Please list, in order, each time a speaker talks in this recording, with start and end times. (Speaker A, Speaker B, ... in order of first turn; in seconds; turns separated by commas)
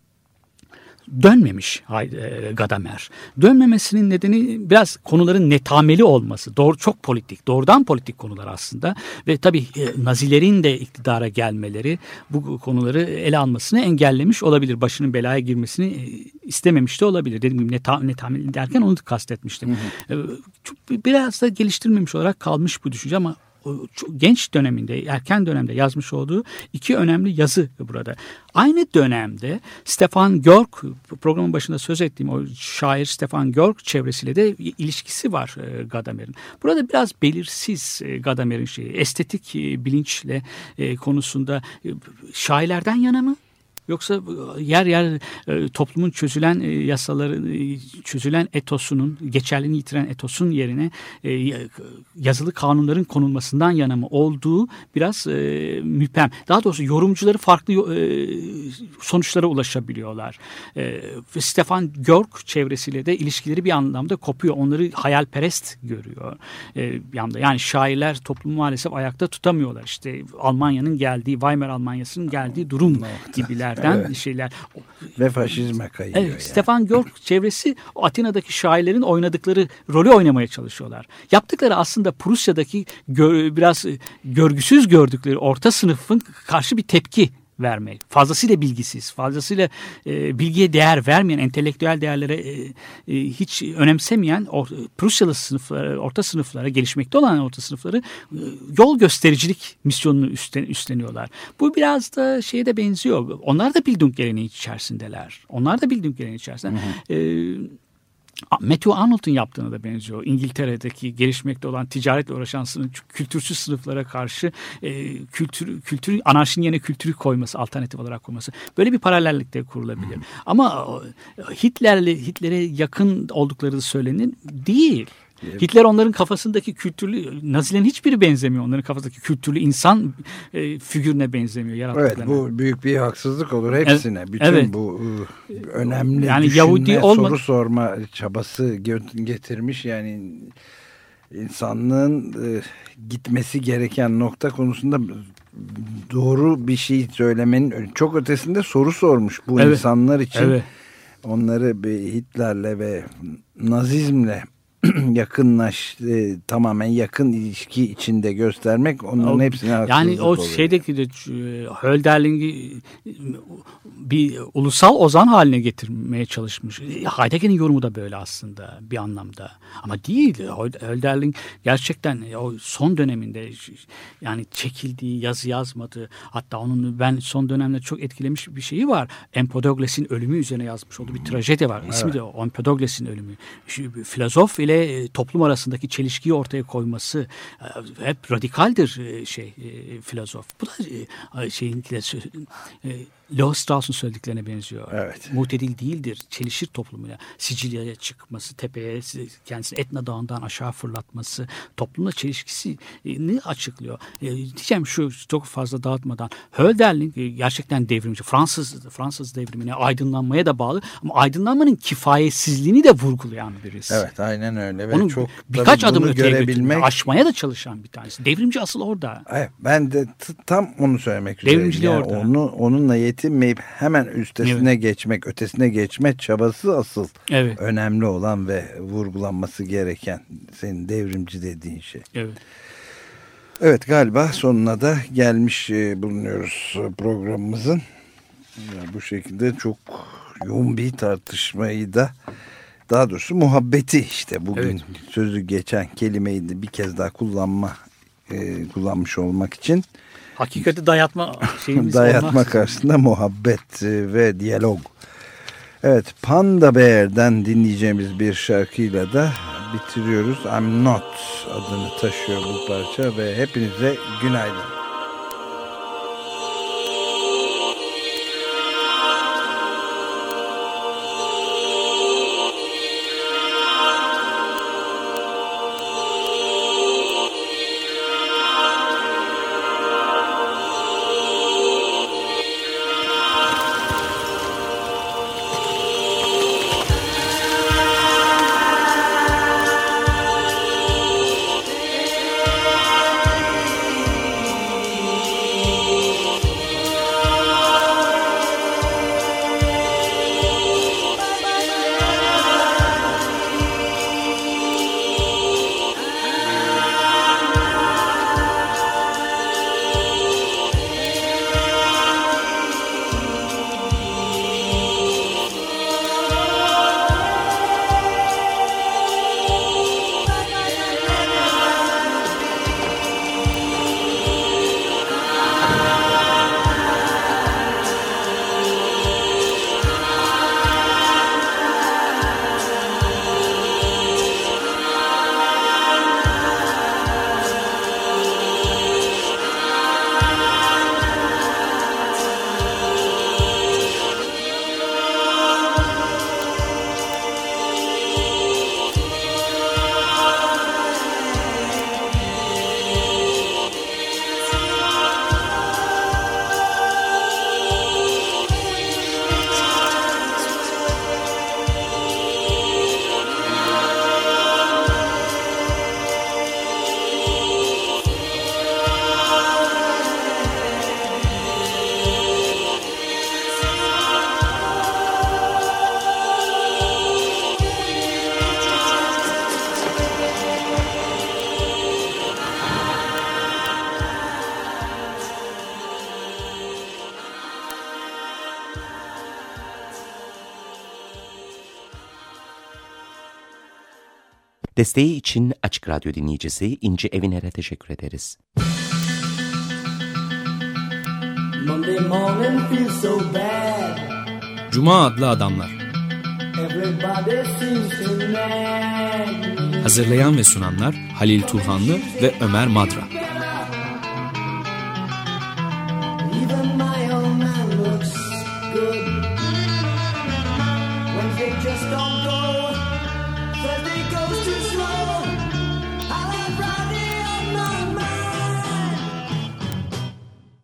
Speaker A: 1.1-74.8, Speaker B: 72.8-74.1, Speaker B: 75.2-76.7, Speaker A: 76.1-107.7, Speaker B: 106.7-107.0, Speaker A: 108.5-132.4, Speaker B: 125.4-125.7, Speaker B: 131.9-140.6, Speaker A: 133.8-134.7, Speaker A: 136.1-137.4, Speaker B: 141.3-150.6, Speaker A: 149.6-150.7, Speaker B: 151.2-160.8, Speaker A: 159.2-214.0, Speaker B: 181.1-182.2, Speaker B: 194.9-195.3, Speaker B: 213.9-216.9, Speaker A: 214.9-219.2, Speaker B: 219.3-232.1, Speaker A: 221.4-222.3, Speaker A: 224.4-224.7, Speaker A: 227.3-227.6, Speaker B: 233.6-237.8, Speaker B: 238.6-242.1, Speaker B: 242.9-249.8, Speaker A: 250.4-252.8, Speaker B: 251.7-254.9, Speaker B: 255.8-264.7, Speaker C: 394.8-398.4, Speaker D: 401.6-404.2, Speaker E: 404.7-405.8, Speaker D: 406.6-410.0, Speaker E: 409.8-413.1, Speaker D: 411.4-412.4, Speaker D: 413.1-413.8, Speaker D: 416.2-419.4, Speaker D: 421.1-422.8, Speaker D: 423.6-425.4, Speaker D: 426.1-429.0